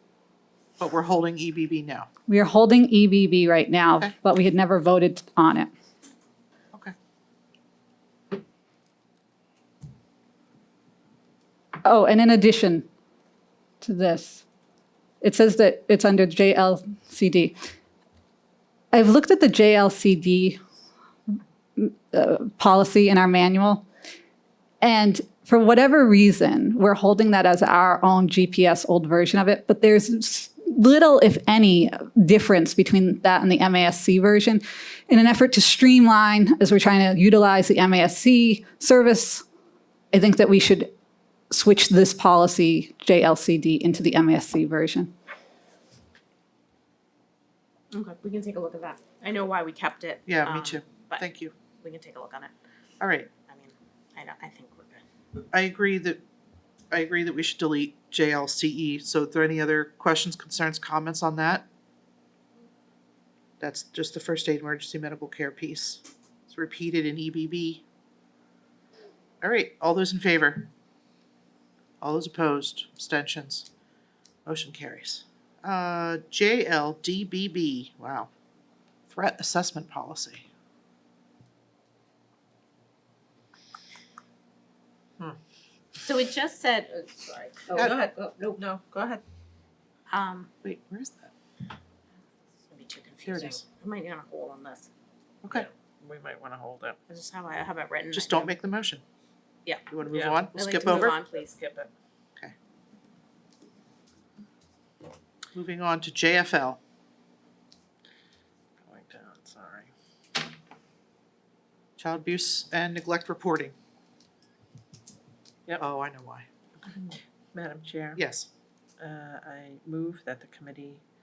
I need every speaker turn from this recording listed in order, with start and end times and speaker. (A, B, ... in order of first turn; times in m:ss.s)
0:00.8-0:02.1 A
0:02.3-0:05.7 B
0:11.8-0:12.9 B
0:13.8-0:14.4 B
0:15.2-0:17.7 B
0:18.9-0:20.6 B
0:21.8-0:23.8 B
0:24.8-0:39.4 B
0:40.1-0:40.9 B
0:41.5-0:45.1 B
0:47.9-0:52.5 C
0:50.3-0:51.5 A
0:53.0-0:53.3 A
0:53.4-0:55.0 C
0:55.5-0:56.2 A
0:56.9-1:01.7 A
1:03.6-1:07.8 A
1:09.4-1:10.7 A
1:12.0-1:13.7 A
1:14.4-1:18.3 A
1:19.1-1:20.5 A
1:26.0-1:28.6 C
1:27.7-1:28.0 A
1:27.8-1:29.2 D
1:30.1-1:30.5 C
1:30.6-1:31.3 A
1:32.7-1:34.9 C
1:33.2-1:33.7 A
1:35.5-1:37.0 D
1:37.1-1:38.6 C
1:38.1-1:39.0 A
1:39.9-1:41.1 A
1:40.1-1:41.9 D
1:40.5-1:41.6 C
1:45.5-1:46.8 A
1:48.8-1:49.9 D
1:52.0-1:53.7 A
1:55.8-1:56.5 A
1:56.9-1:58.2 D
1:58.2-1:58.5 A
1:59.0-2:01.0 D